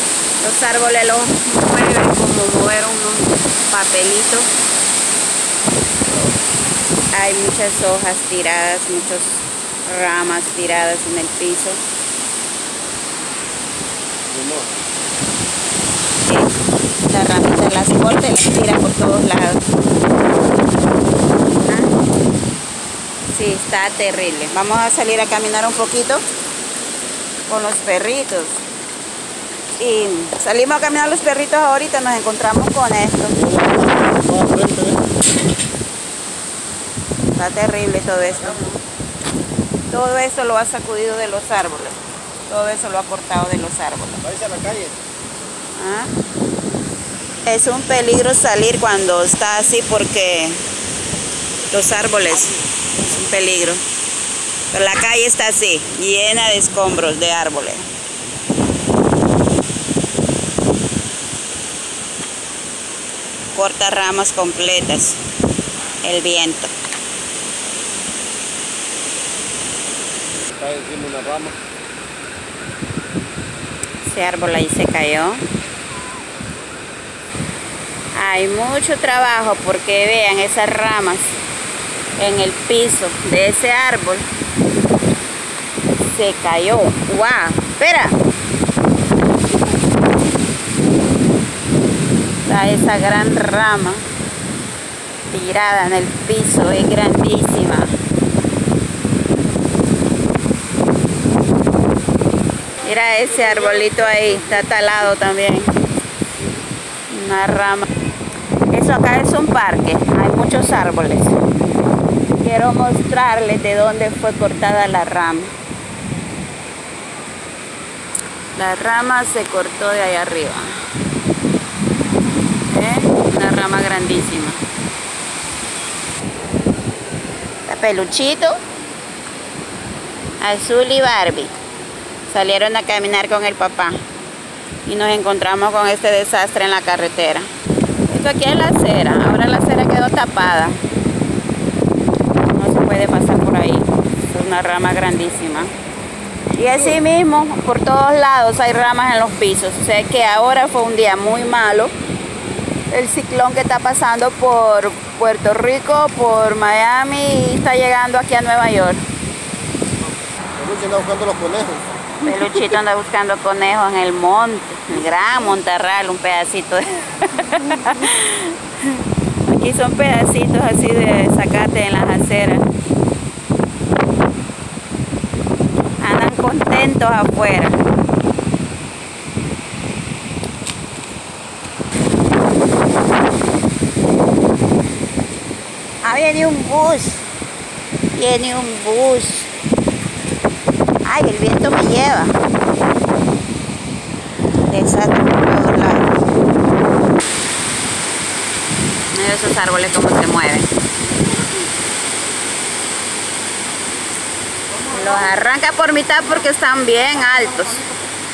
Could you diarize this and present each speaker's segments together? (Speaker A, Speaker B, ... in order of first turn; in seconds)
Speaker A: 0.4-4.5, 7.1-11.8, 16.2-16.5, 17.1-19.6, 21.6-21.9, 23.3-26.2, 27.5-28.6, 29.8-33.4, 37.4-38.8, 39.9-44.2, 45.8-46.1, 47.4-50.6, 51.7-53.8, 54.7-57.9, 63.5-65.2, 66.0-66.7, 74.0-75.4, 78.1-81.3, 82.2-84.2, 86.1-88.2, 92.5-94.0, 95.3-98.0, 102.8-105.7, 107.1-107.9, 108.7-111.3, 112.3-115.5, 118.5-120.8, 122.7-124.6, 127.7-128.6, 130.4-131.5, 132.3-134.0, 134.8-137.5, 138.1-140.8, 142.5-145.7, 146.5-151.9, 152.9-159.0, 162.2-172.7, 176.0-177.8, 186.0-187.2, 188.1-189.5, 191.0-192.4, 194.7-196.1, 199.1-200.7, 204.8-207.8
Speaker B: 14.3-14.7, 33.4-35.0, 44.2-45.0, 70.5-71.5, 160.6-161.9